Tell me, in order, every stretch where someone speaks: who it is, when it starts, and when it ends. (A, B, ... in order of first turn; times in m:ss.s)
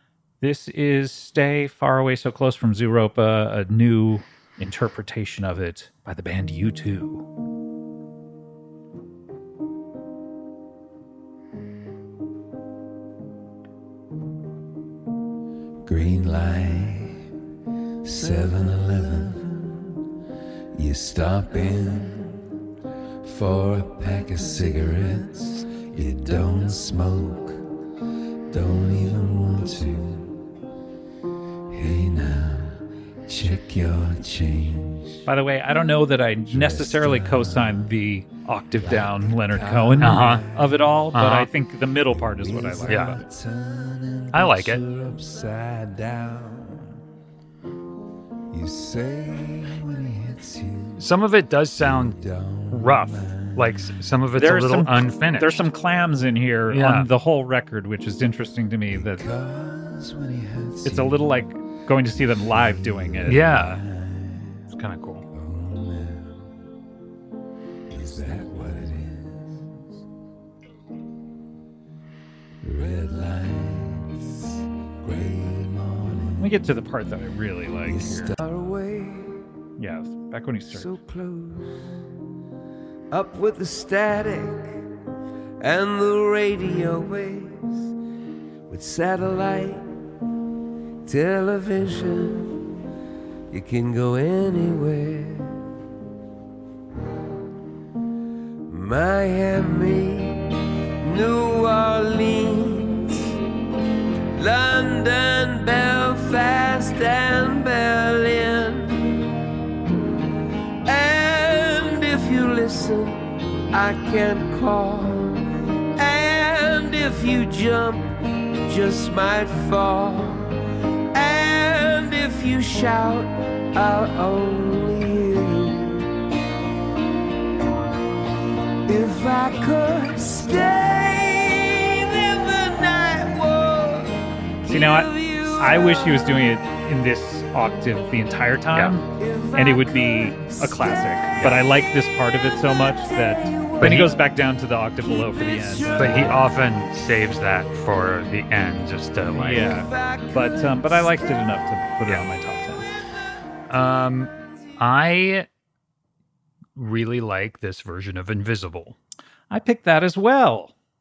0:00.4-0:07.2 A
0:15.8-0:17.2 B
0:18.0-0:20.0 B
0:20.7-0:22.5 B
0:23.2-0:27.6 B
0:28.5-0:30.4 B
0:31.7-0:35.2 B
0:35.3-0:43.2 A
0:36.5-0:37.8 B
0:38.8-0:40.9 B
0:40.0-0:40.5 C
0:41.1-0:41.5 C
0:42.1-0:46.9 B
0:42.9-0:43.2 C
0:44.3-0:44.8 C
0:48.5-0:51.1 B
0:51.0-0:52.2 C
0:51.8-0:53.9 B
0:52.7-0:55.7 C
0:54.4-0:59.3 A
0:56.7-0:57.1 C
0:58.9-1:01.4 B
1:00.8-1:03.7 A
1:02.6-1:04.6 B
1:03.2-1:03.8 C
1:04.7-1:05.2 C
1:05.3-1:06.4 B
1:07.9-1:09.8 B
1:12.6-1:16.6 B
1:16.4-1:18.3 A
1:17.8-1:19.4 B
1:19.8-1:20.9 A
1:20.7-1:21.8 B
1:23.1-1:24.8 B
1:25.6-1:27.9 B
1:28.7-1:29.9 B
1:31.0-1:32.7 B
1:33.5-1:35.6 B
1:38.7-1:43.3 B
1:44.4-1:49.4 B
1:50.8-2:00.6 B
2:01.1-2:06.1 B
2:08.9-2:16.5 B
2:14.7-2:26.4 A
2:19.1-2:21.7 B
2:21.4-2:21.6 C
2:22.9-2:24.2 B
2:23.8-2:24.1 C
2:25.0-2:26.5 B
2:25.9-2:29.8 C
2:29.4-2:32.9 A
2:29.5-2:31.4 B
2:33.7-2:35.5 C
2:36.8-2:39.0 C
2:39.5-2:40.7 A